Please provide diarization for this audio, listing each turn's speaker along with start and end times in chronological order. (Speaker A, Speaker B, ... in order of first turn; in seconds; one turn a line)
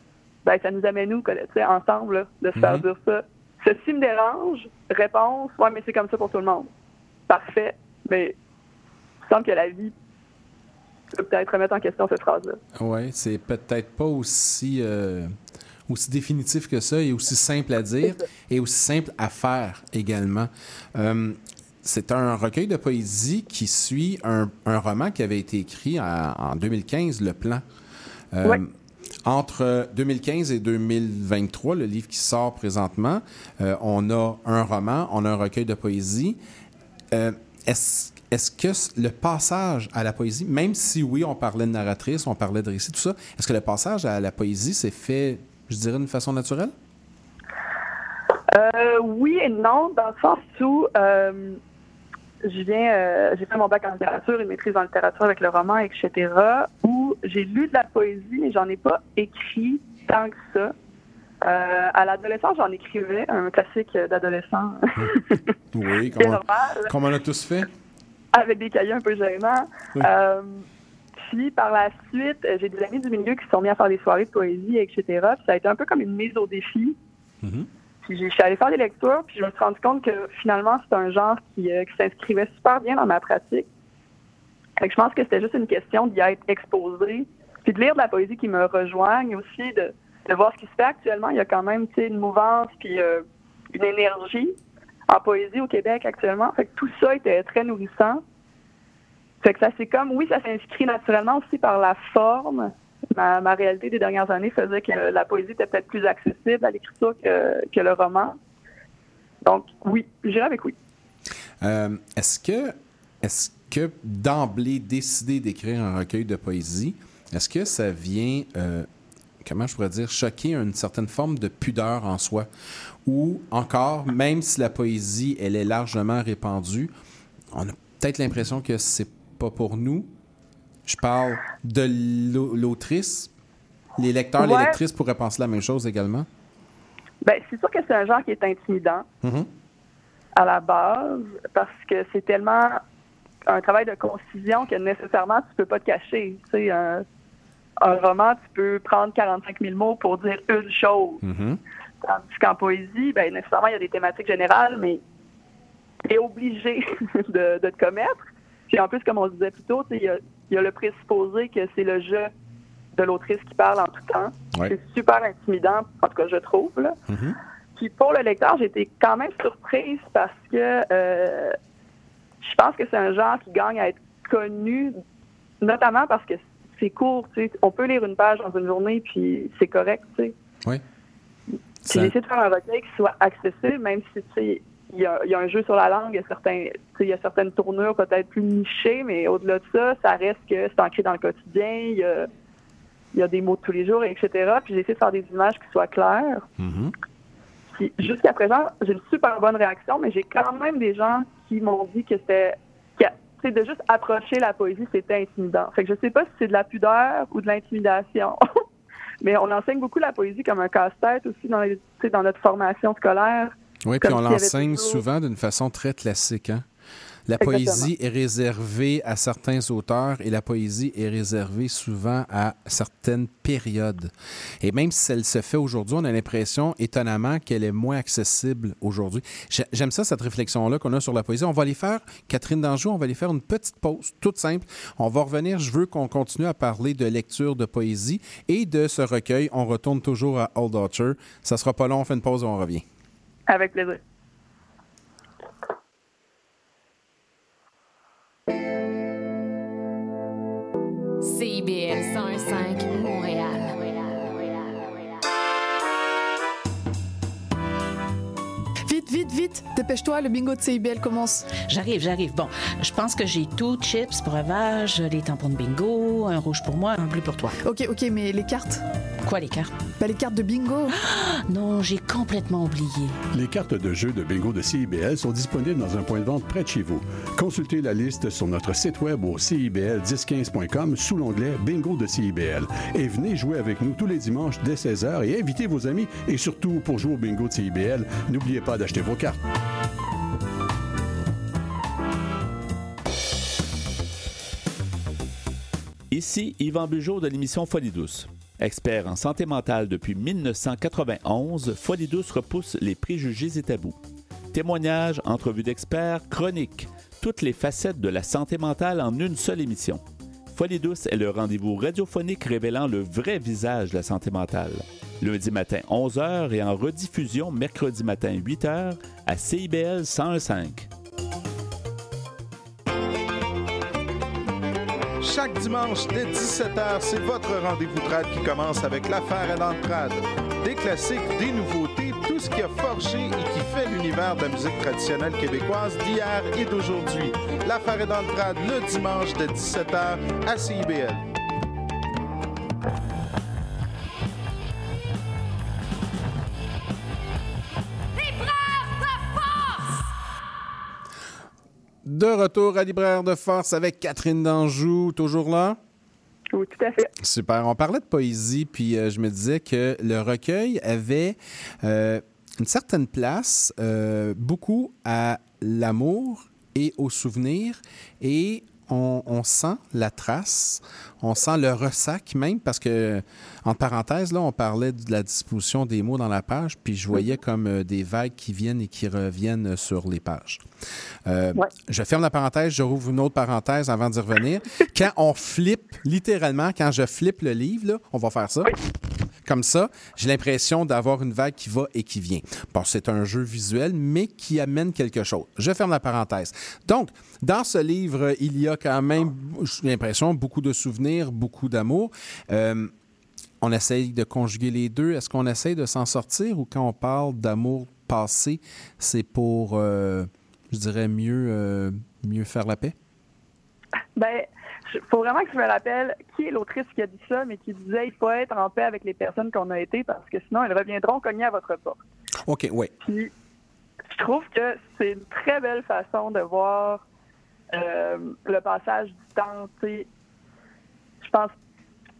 Speaker A: 0.4-6.7
Speaker B: 2.5-2.9
Speaker A: 7.3-8.3
Speaker A: 9.2-9.9
Speaker A: 11.1-12.6
Speaker B: 12.8-15.3
Speaker B: 15.9-27.6
Speaker B: 28.3-28.7
Speaker B: 29.2-36.4
Speaker B: 37.1-46.7
Speaker A: 48.5-51.6
Speaker A: 52.4-60.7
Speaker A: 61.4-65.4
Speaker B: 65.7-67.7
Speaker A: 66.1-66.9
Speaker A: 68.3-70.6
Speaker A: 71.2-77.0
Speaker A: 78.0-83.7
Speaker A: 84.8-94.5
Speaker A: 95.1-98.2
Speaker A: 99.4-108.4
Speaker A: 109.4-110.7
Speaker B: 111.6-118.9
Speaker B: 119.4-122.5
Speaker B: 123.0-126.9
Speaker B: 127.5-130.1
Speaker B: 130.9-133.3
Speaker B: 134.0-136.3
Speaker A: 134.4-134.8
Speaker A: 137.2-139.1
Speaker B: 139.2-139.5
Speaker A: 140.4-142.8
Speaker A: 143.5-147.0
Speaker A: 147.8-151.2
Speaker B: 151.2-151.6
Speaker A: 152.0-155.0
Speaker A: 156.1-162.3
Speaker A: 162.9-166.9
Speaker B: 167.1-167.3
Speaker A: 167.8-171.5
Speaker A: 172.4-174.9
Speaker A: 175.6-180.3
Speaker B: 181.8-182.1
Speaker A: 181.9-192.3
Speaker A: 193.1-196.4
Speaker B: 196.6-196.9
Speaker A: 197.7-208.4
Speaker A: 209.2-215.0
Speaker B: 213.8-216.6
Speaker B: 217.3-224.1
Speaker A: 217.4-217.9
Speaker B: 224.6-242.8
Speaker A: 243.5-244.0
Speaker C: 251.2-254.7
Speaker D: 258.9-261.5
Speaker E: 261.5-267.6
Speaker D: 267.6-268.8
Speaker E: 269.2-269.8
Speaker D: 270.0-270.9
Speaker E: 271.0-273.2
Speaker F: 273.3-289.4
Speaker G: 296.1-304.0
Speaker G: 304.5-310.0
Speaker G: 310.5-320.9
Speaker H: 325.2-341.2
Speaker B: 352.1-355.8
Speaker A: 356.5-357.1
Speaker B: 357.2-380.6
Speaker B: 381.2-388.7
Speaker B: 389.4-402.9
Speaker B: 403.6-412.9
Speaker A: 414.1-422.0
Speaker B: 422.5-422.9
Speaker A: 423.0-423.3
Speaker A: 424.1-427.0
Speaker A: 427.7-430.1
Speaker A: 431.2-431.5